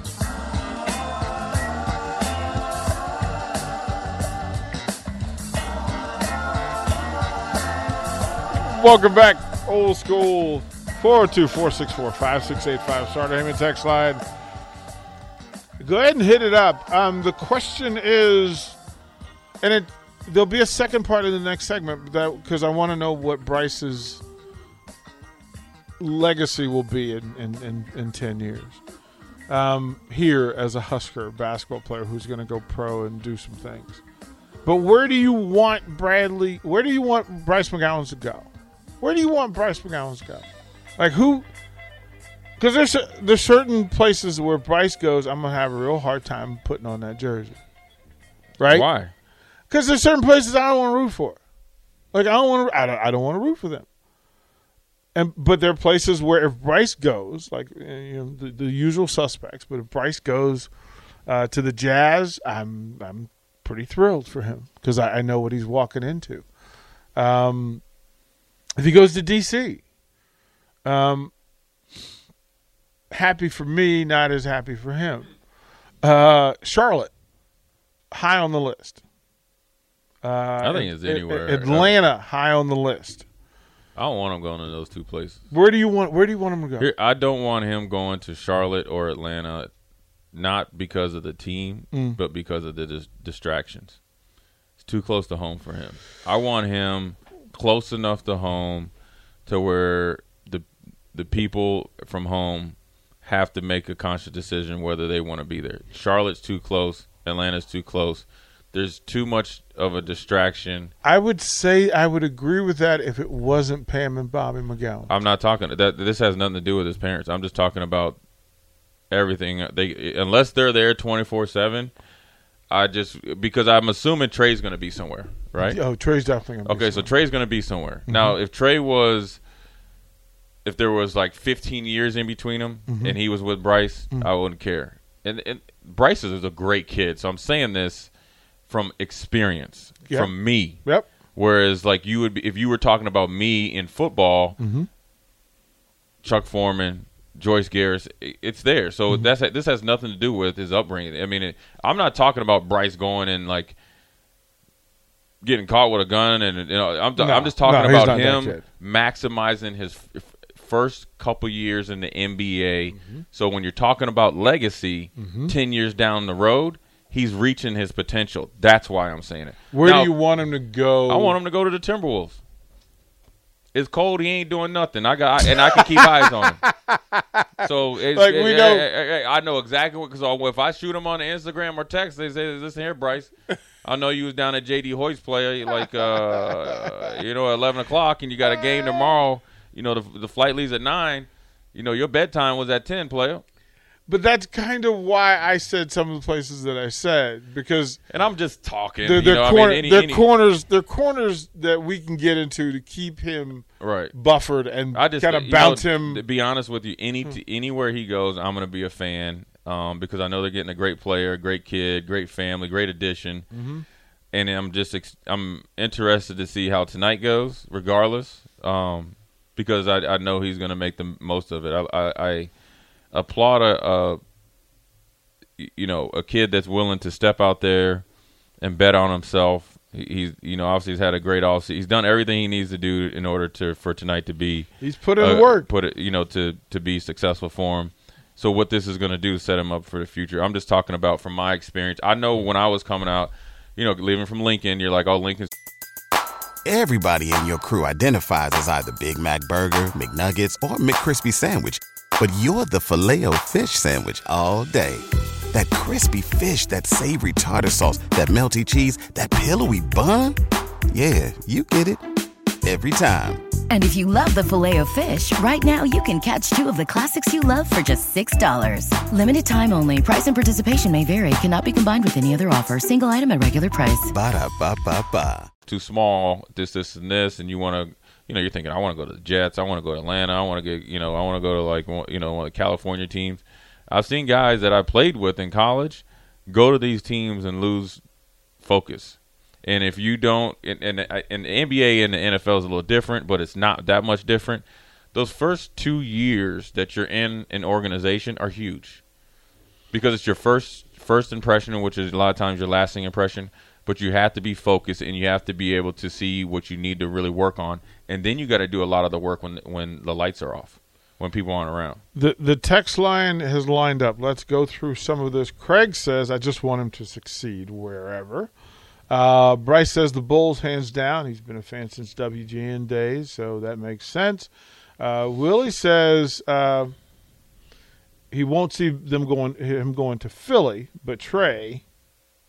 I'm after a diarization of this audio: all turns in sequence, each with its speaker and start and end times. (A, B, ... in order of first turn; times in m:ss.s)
0:08.5-0:14.2 A
0:15.8-0:18.8 A
0:19.6-0:24.2 A
0:26.0-0:28.8 A
0:29.5-0:34.0 A
0:34.6-0:38.5 A
0:39.0-0:41.5 A
0:42.6-0:47.6 A
0:48.6-0:48.9 A
0:48.7-0:49.1 B
0:49.7-0:51.4 A
0:52.1-0:53.9 A
0:55.2-1:00.7 A
1:01.3-1:06.5 A
1:07.2-1:07.8 A
1:08.8-1:09.8 A
1:10.8-1:11.3 A
1:13.1-1:15.3 A
1:16.0-1:17.1 A
1:18.1-1:19.0 A
1:20.2-1:23.3 A
1:20.6-1:22.0 B
1:24.0-1:25.4 B
1:25.5-1:26.9 A
1:26.8-1:29.7 B
1:30.3-1:34.0 B
1:31.9-1:32.2 A
1:34.8-1:38.9 B
1:39.5-1:50.9 B
1:51.0-1:55.1 A
1:55.1-1:58.2 B
1:59.1-2:01.9 B
2:02.7-2:05.8 B
2:05.6-2:07.1 A
2:06.6-2:09.4 B
2:08.1-2:08.4 A
2:10.6-2:18.1 B
2:12.9-2:13.2 A
2:18.7-2:24.6 B
2:20.8-2:21.1 A
2:24.6-2:24.9 A
2:26.2-2:33.8 B
2:35.4-2:50.1 B
2:37.2-2:38.6 A
2:42.9-2:43.2 A
2:45.2-2:45.6 A
2:49.7-2:51.4 A
2:51.1-2:52.4 B
2:53.7-2:56.6 B
2:55.5-2:58.8 A
2:57.6-3:03.3 B
3:03.8-3:13.4 B
3:14.1-3:18.0 A
3:18.1-3:20.3 B
3:19.0-3:26.2 A
3:23.8-3:24.2 B
3:24.9-3:33.5 B
3:33.5-3:33.9 A
3:34.3-3:42.5 B
3:43.1-3:44.2 B
3:45.6-3:48.0 B
3:48.6-4:05.5 B
3:54.8-3:55.7 A
4:06.6-4:20.4 C
4:20.9-4:22.0 C
4:22.6-4:23.4 C
4:23.7-4:34.1 D
4:34.1-4:35.5 C
4:35.7-4:48.0 B
4:48.6-4:59.0 B
4:59.9-5:12.0 B
5:12.1-5:18.5 A
5:19.1-5:27.0 A
5:28.3-5:31.8 A